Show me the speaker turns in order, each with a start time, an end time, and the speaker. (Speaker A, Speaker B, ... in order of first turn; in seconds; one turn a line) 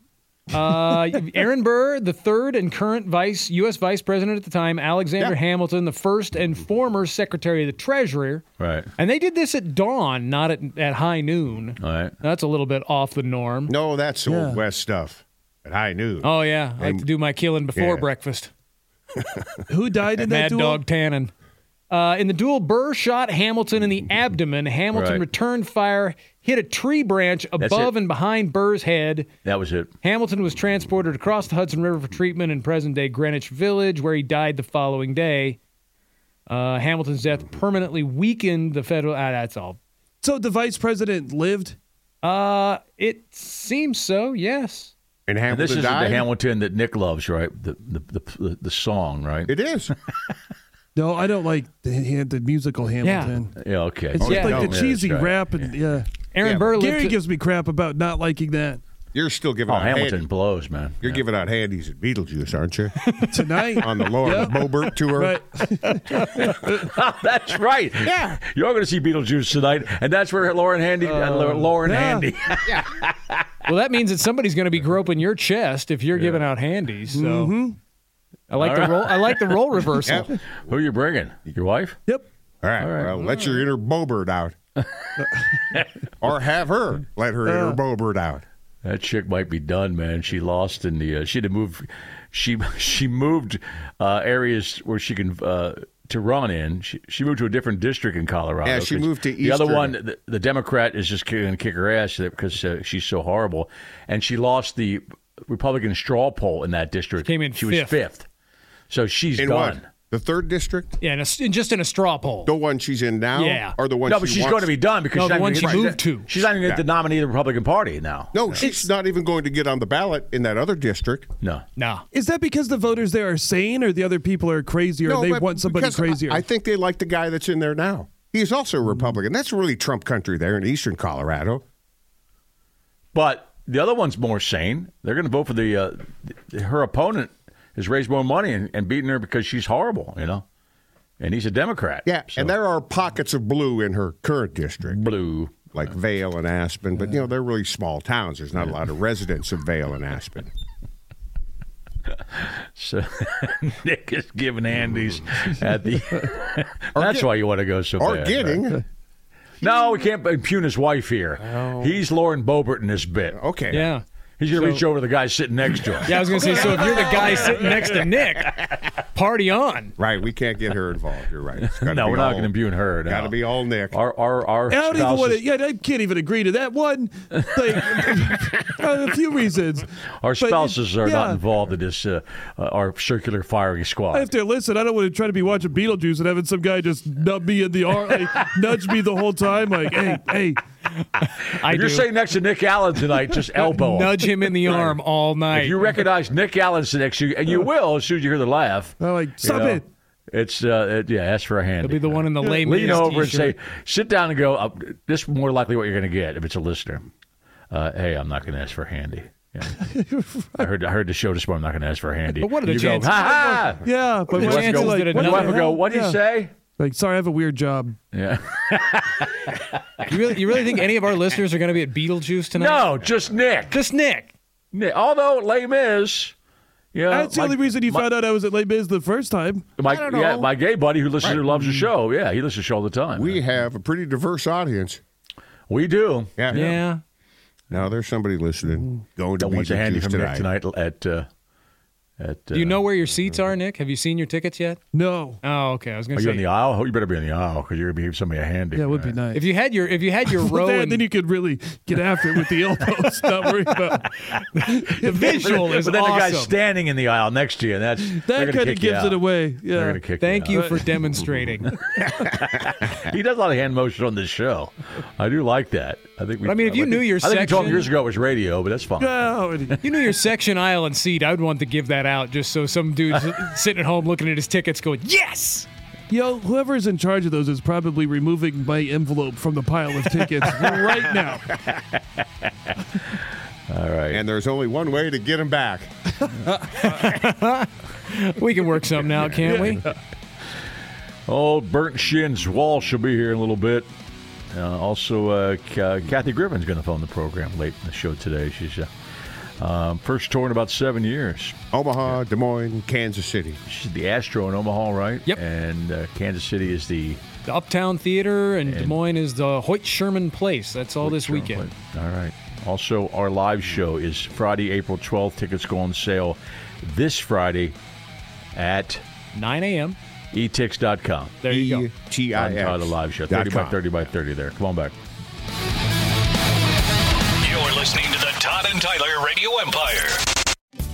Speaker A: 0.5-8.4
Speaker B: 8.6-8.9
Speaker A: 9.0-13.7
Speaker B: 11.8-12.1
Speaker C: 13.7-17.1
Speaker D: 14.2-14.6
Speaker A: 16.2-18.5
Speaker C: 17.8-18.1
Speaker D: 19.7-20.8
Speaker A: 20.2-21.3
Speaker A: 21.9-29.3
Speaker B: 24.9-25.2
Speaker B: 27.6-27.9
Speaker B: 29.4-29.9
Speaker A: 30.0-35.6
Speaker A: 36.5-39.8
Speaker D: 40.2-41.8
Speaker A: 42.2-44.9
Speaker C: 45.3-46.3
Speaker B: 45.5-49.5
Speaker C: 49.5-49.9
Speaker D: 50.9-53.5
Speaker A: 53.0-53.3
Speaker B: 53.6-55.7
Speaker D: 54.1-56.1
Speaker C: 54.2-54.8
Speaker A: 54.2-54.5
Speaker A: 56.3-57.1
Speaker C: 56.4-56.7
Speaker D: 56.7-58.8
Speaker C: 59.1-60.3
Speaker B: 59.7-61.2
Speaker C: 61.0-63.0
Speaker A: 63.1-63.4
Speaker D: 63.3-64.6
Speaker C: 63.8-65.4
Speaker D: 65.1-66.8
Speaker A: 66.1-66.5
Speaker B: 66.2-73.4
Speaker C: 68.0-68.4
Speaker D: 71.0-72.3
Speaker A: 73.7-77.5
Speaker B: 76.1-76.4
Speaker D: 77.1-77.8
Speaker A: 78.5-80.3
Speaker B: 78.6-79.4
Speaker B: 80.6-82.0
Speaker C: 82.6-84.5
Speaker B: 82.8-83.5
Speaker D: 85.2-85.4
Speaker C: 86.2-88.4
Speaker D: 87.5-87.8
Speaker B: 88.8-108.3
Speaker C: 98.6-100.0
Speaker A: 107.2-108.0
Speaker B: 108.9-109.8
Speaker C: 109.4-110.9
Speaker A: 111.0-112.5
Speaker C: 112.5-114.7
Speaker A: 113.3-113.8
Speaker B: 114.0-118.6
Speaker A: 115.1-116.3
Speaker C: 115.6-116.8
Speaker C: 118.3-121.3
Speaker A: 121.8-122.0
Speaker D: 122.1-126.4
Speaker C: 125.0-131.6
Speaker B: 133.1-140.4
Speaker B: 141.2-142.5
Speaker C: 142.1-145.0
Speaker B: 144.8-145.6
Speaker C: 145.7-150.5
Speaker B: 152.3-158.6
Speaker C: 156.9-157.3
Speaker C: 158.0-158.8
Speaker B: 159.6-167.8
Speaker C: 161.4-162.0
Speaker C: 163.3-163.8
Speaker A: 163.7-164.8
Speaker A: 166.0-169.9
Speaker C: 170.0-174.0
Speaker B: 171.6-175.4
Speaker D: 174.7-179.9
Speaker B: 180.2-184.3
Speaker D: 180.4-181.4
Speaker D: 184.1-190.6
Speaker A: 191.0-192.1
Speaker B: 191.6-195.0
Speaker A: 193.6-195.9
Speaker B: 195.5-207.1
Speaker D: 199.0-199.8
Speaker A: 201.8-203.5
Speaker D: 202.4-203.1
Speaker B: 207.7-209.7
Speaker D: 209.8-210.7
Speaker B: 210.6-216.5
Speaker A: 212.4-213.7
Speaker D: 213.8-216.2
Speaker A: 214.3-215.6
Speaker D: 216.8-217.9
Speaker B: 218.1-220.1
Speaker A: 220.1-222.9
Speaker B: 222.5-223.7
Speaker A: 223.7-224.3
Speaker B: 224.7-226.3
Speaker B: 226.9-228.1
Speaker D: 227.1-229.7
Speaker B: 229.8-233.4
Speaker C: 229.8-230.5
Speaker C: 233.2-235.0
Speaker B: 235.7-236.8
Speaker C: 236.4-236.6
Speaker A: 236.5-237.0
Speaker C: 237.7-240.5
Speaker B: 239.4-241.3
Speaker B: 242.2-242.8
Speaker A: 242.5-244.8
Speaker D: 244.9-245.4
Speaker A: 245.4-246.4
Speaker B: 246.1-249.2
Speaker D: 248.7-249.4
Speaker A: 249.3-251.1
Speaker D: 250.3-254.1
Speaker A: 254.5-256.6
Speaker D: 254.7-255.5
Speaker B: 255.0-260.8
Speaker D: 258.1-260.8
Speaker A: 260.2-261.7
Speaker C: 262.1-262.4
Speaker B: 262.1-269.3
Speaker A: 266.4-267.9
Speaker D: 269.0-269.8
Speaker A: 269.8-275.7
Speaker D: 276.1-281.5
Speaker B: 283.7-284.2
Speaker C: 284.1-285.9
Speaker A: 286.7-289.9
Speaker D: 289.4-289.9
Speaker B: 291.3-293.9
Speaker B: 294.5-298.9
Speaker B: 299.6-302.1
Speaker C: 301.7-303.6
Speaker B: 303.6-307.2
Speaker A: 307.4-311.7
Speaker B: 308.6-309.0
Speaker B: 311.0-317.8
Speaker B: 318.5-319.0
Speaker A: 319.3-320.0
Speaker B: 320.3-321.4
Speaker A: 321.4-321.9
Speaker C: 321.5-323.8
Speaker B: 322.3-324.9
Speaker E: 327.4-330.2